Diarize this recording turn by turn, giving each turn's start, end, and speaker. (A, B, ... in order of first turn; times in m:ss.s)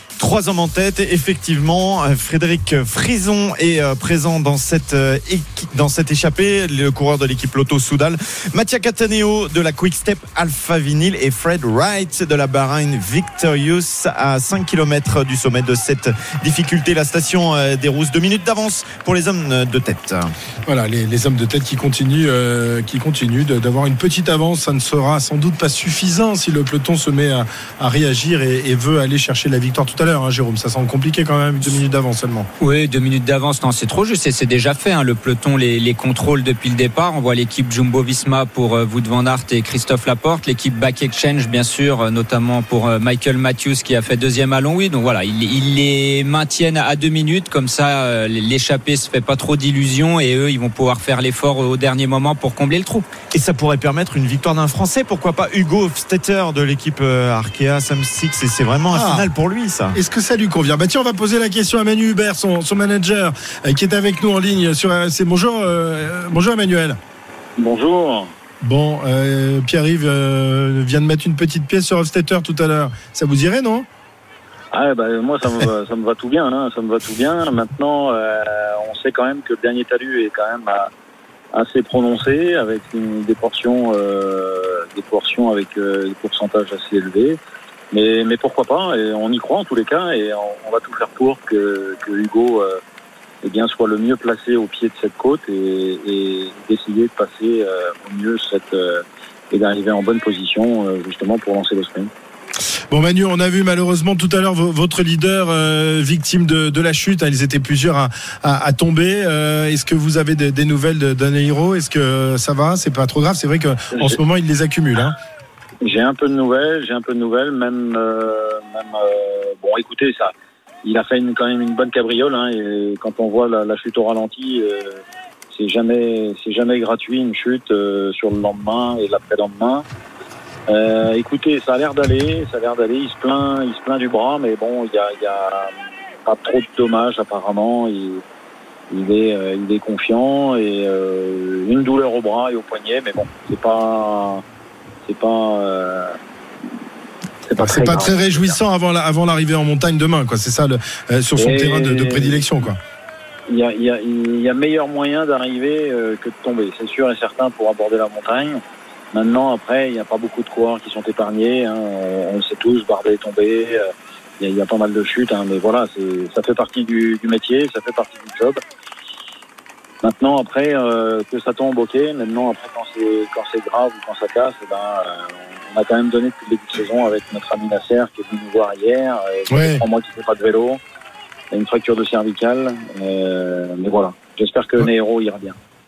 0:00.2-0:20.3 A
0:20.6-0:32.5 B
0:32.6-0:53.1 C
0:53.3-1:00.0 A
0:58.9-0:59.3 B
0:59.9-1:07.0 B
1:07.6-1:08.3 D
1:08.6-1:13.9 B
1:14.7-1:20.9 D
1:21.5-1:27.4 D
1:27.9-1:32.8 D
1:33.4-1:42.1 D
1:42.9-1:55.2 B
1:53.9-1:54.2 D
1:55.8-2:00.3 D
2:00.8-2:05.0 D
2:05.5-2:09.8 D
2:10.7-2:15.7 D
2:16.2-2:18.2 D
2:18.9-2:24.4 D
2:25.0-2:26.2 D
2:27.5-2:28.6 D
2:27.6-2:32.8 B
2:31.4-2:32.5 D
2:33.5-2:38.6 D
2:39.1-2:43.9 D
2:44.4-2:48.6 D
2:50.0-3:00.8 D
2:59.5-2:59.8 B
3:01.5-3:05.6 D